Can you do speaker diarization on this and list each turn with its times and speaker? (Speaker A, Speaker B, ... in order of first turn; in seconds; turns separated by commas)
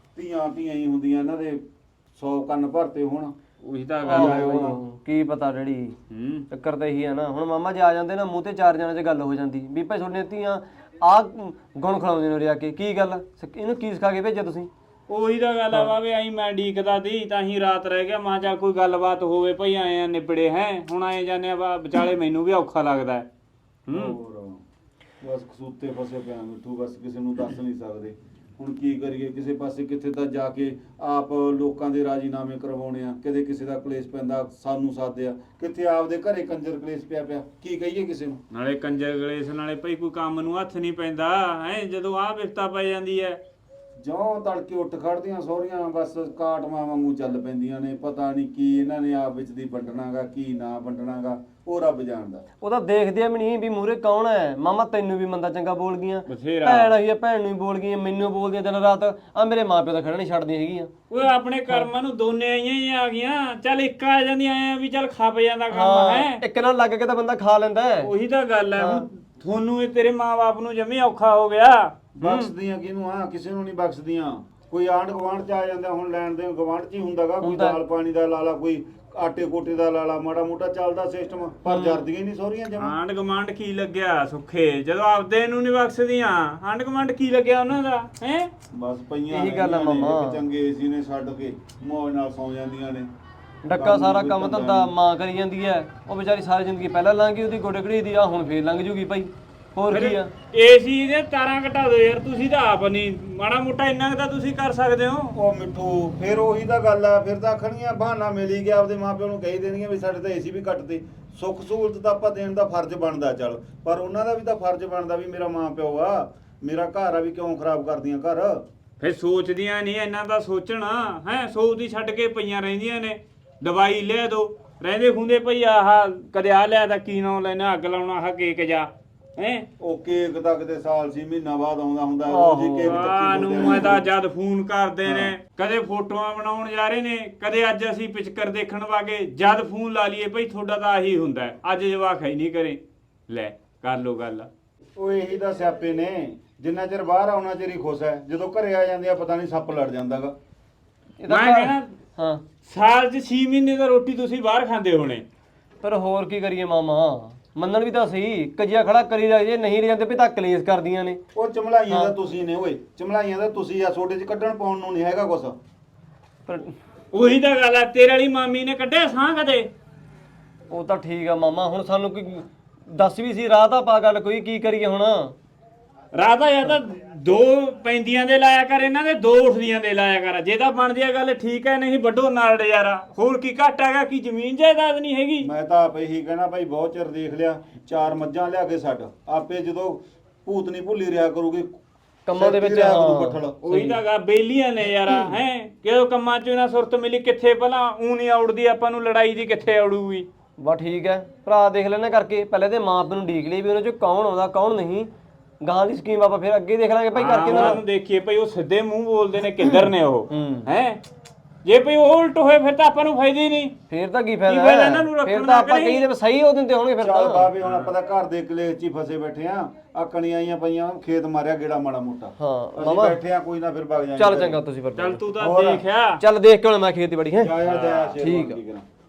Speaker A: 0.1-3.3, Speaker B: 3.6-4.8, Speaker C: 4.0-6.0, Speaker A: 4.1-4.8, Speaker B: 6.1-6.5, Speaker C: 6.5-14.7, Speaker B: 15.1-23.3, Speaker B: 23.9-24.1, Speaker A: 23.9-24.6, Speaker A: 25.2-38.4, Speaker B: 38.5-43.4, Speaker A: 44.0-52.4, Speaker C: 52.6-60.9, Speaker B: 56.3-56.9, Speaker B: 61.1-66.4, Speaker C: 65.7-68.1, Speaker B: 68.0-72.5, Speaker C: 68.8-69.0, Speaker A: 72.2-83.0, Speaker C: 77.4-77.8, Speaker C: 81.7-82.0, Speaker B: 82.8-88.5, Speaker A: 88.7-93.1, Speaker C: 89.3-90.4, Speaker C: 93.6-100.3, Speaker A: 93.7-94.9, Speaker B: 99.9-105.4, Speaker A: 105.3-118.6, Speaker B: 119.0-129.7, Speaker A: 129.8-134.1, Speaker C: 132.3-133.0, Speaker B: 132.8-144.5, Speaker A: 135.0-135.3, Speaker A: 145.0-150.3, Speaker C: 151.2-152.4, Speaker B: 151.3-151.9, Speaker B: 152.7-155.2, Speaker C: 155.8-161.2, Speaker A: 161.3-165.6, Speaker C: 166.4-166.7, Speaker B: 167.1-169.7, Speaker C: 170.7-175.3, Speaker B: 176.1-185.5, Speaker A: 185.4-191.8, Speaker C: 192.2-194.0, Speaker A: 192.3-193.6, Speaker B: 193.6-200.3, Speaker C: 200.6-205.1, Speaker C: 205.6-207.8, Speaker B: 207.1-211.0, Speaker C: 210.3-210.7, Speaker B: 211.6-213.7, Speaker C: 213.9-217.5, Speaker B: 214.5-216.1, Speaker A: 217.0-224.6, Speaker B: 217.6-217.9, Speaker C: 222.4-223.2, Speaker C: 224.2-225.2, Speaker B: 225.0-226.2, Speaker A: 225.4-225.8, Speaker C: 226.2-227.5, Speaker A: 227.4-228.8, Speaker B: 227.6-228.2, Speaker C: 228.2-228.6